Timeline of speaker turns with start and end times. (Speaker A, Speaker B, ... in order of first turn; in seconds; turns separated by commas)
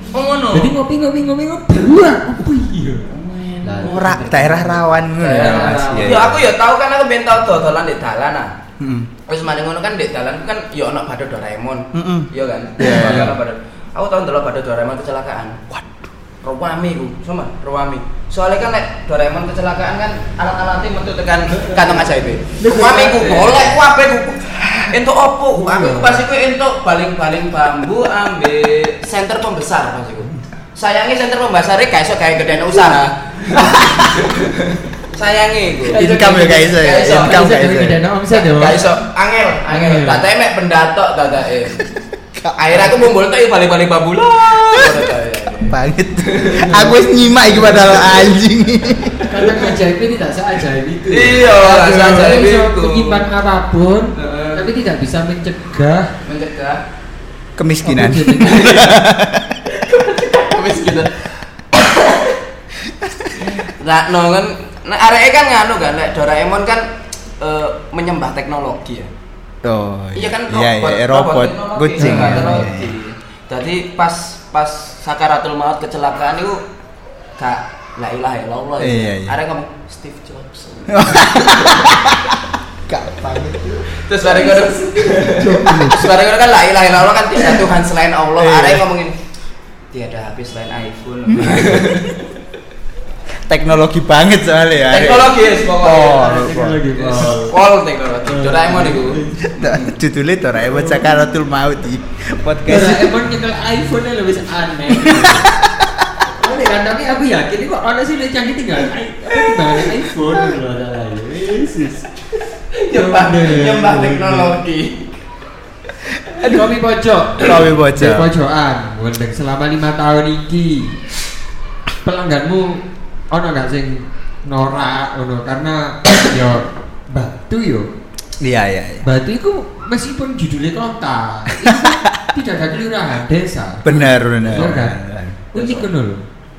Speaker A: 0.1-0.7, Speaker B: 0.5-3.1, Speaker A: 3.1-4.0, Speaker B: 3.6-6.3, Speaker C: 3.8-6.4, Speaker A: 5.2-8.5, Speaker C: 8.8-9.1, Speaker A: 9.2-15.6, Speaker C: 11.9-13.3, Speaker B: 12.8-13.3, Speaker C: 15.7-16.1, Speaker A: 16.4-36.1, Speaker B: 21.5-22.1, Speaker B: 22.6-23.7, Speaker B: 25.5-26.2, Speaker C: 33.5-34.2, Speaker B: 35.9-38.8, Speaker C: 35.9-38.0, Speaker A: 36.6-37.5, Speaker A: 38.3-41.8, Speaker B: 39.7-40.2, Speaker C: 41.8-43.0, Speaker A: 42.5-46.7, Speaker C: 44.6-45.0, Speaker C: 45.7-49.2, Speaker B: 46.5-47.0, Speaker A: 47.5-48.3, Speaker B: 49.3-56.1, Speaker A: 51.1-53.3, Speaker A: 54.1-54.6, Speaker A: 56.2-56.8, Speaker C: 57.5-59.5, Speaker B: 57.8-58.8, Speaker A: 58.4-59.0, Speaker A: 59.7-62.3, Speaker A: 63.4-66.9, Speaker A: 67.4-69.1, Speaker C: 69.6-73.0, Speaker A: 70.1-76.6, Speaker B: 72.0-72.7, Speaker A: 77.4-81.9, Speaker C: 78.8-79.3, Speaker C: 80.9-83.8, Speaker A: 83.9-89.1, Speaker B: 84.4-86.1, Speaker C: 88.4-88.8, Speaker A: 89.9-92.1, Speaker C: 91.3-91.9, Speaker C: 93.5-96.8, Speaker A: 94.9-96.3, Speaker B: 95.8-97.5, Speaker A: 97.0-99.9, Speaker B: 98.3-99.6, Speaker C: 99.4-103.1, Speaker B: 102.7-105.5, Speaker C: 105.0-106.1, Speaker B: 106.3-112.1, Speaker A: 112.7-115.1, Speaker B: 112.9-114.6, Speaker B: 116.4-121.0, Speaker C: 117.4-118.3, Speaker B: 122.0-127.9, Speaker C: 128.4-129.1, Speaker B: 129.0-135.0, Speaker C: 131.6-132.2, Speaker C: 133.8-135.5, Speaker B: 135.5-136.2, Speaker A: 135.5-135.8